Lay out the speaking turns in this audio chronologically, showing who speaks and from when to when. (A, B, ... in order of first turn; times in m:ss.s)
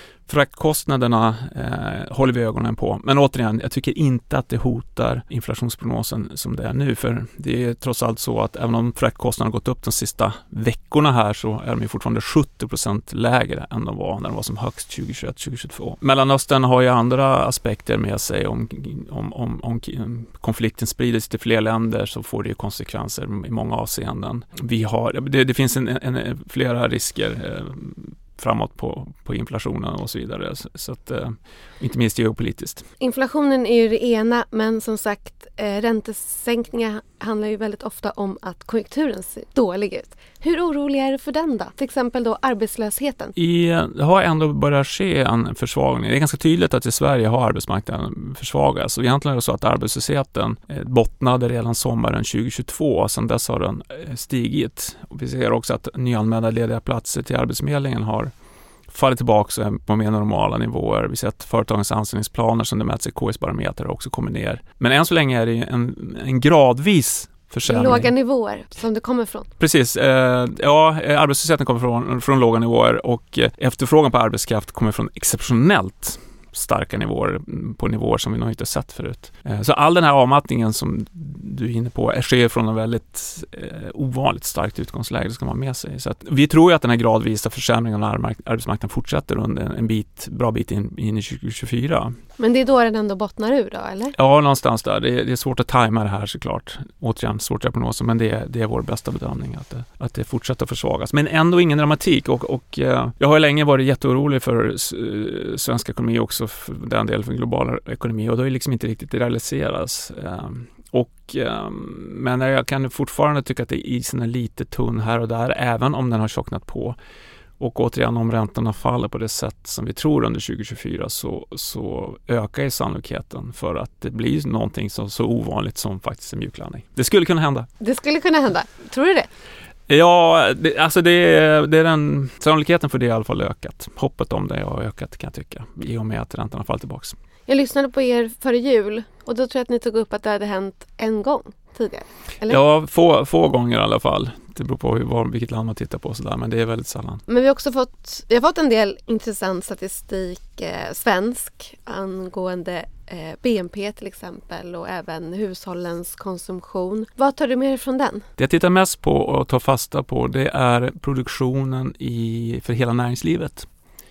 0:00.3-0:32.8 A
0:33.0-0:43.4 B
0:43.4-0:58.3 A
0:58.9-1:08.1 A
1:07.7-1:09.5 B
1:09.6-1:32.2 A
1:32.4-1:34.2 B
1:34.2-1:57.0 A
1:57.6-2:07.7 A
2:07.8-2:09.3 B
2:09.9-2:17.2 A
2:17.5-2:22.6 B
2:22.4-2:27.2 A
2:27.3-2:38.3 B
2:38.4-2:43.7 A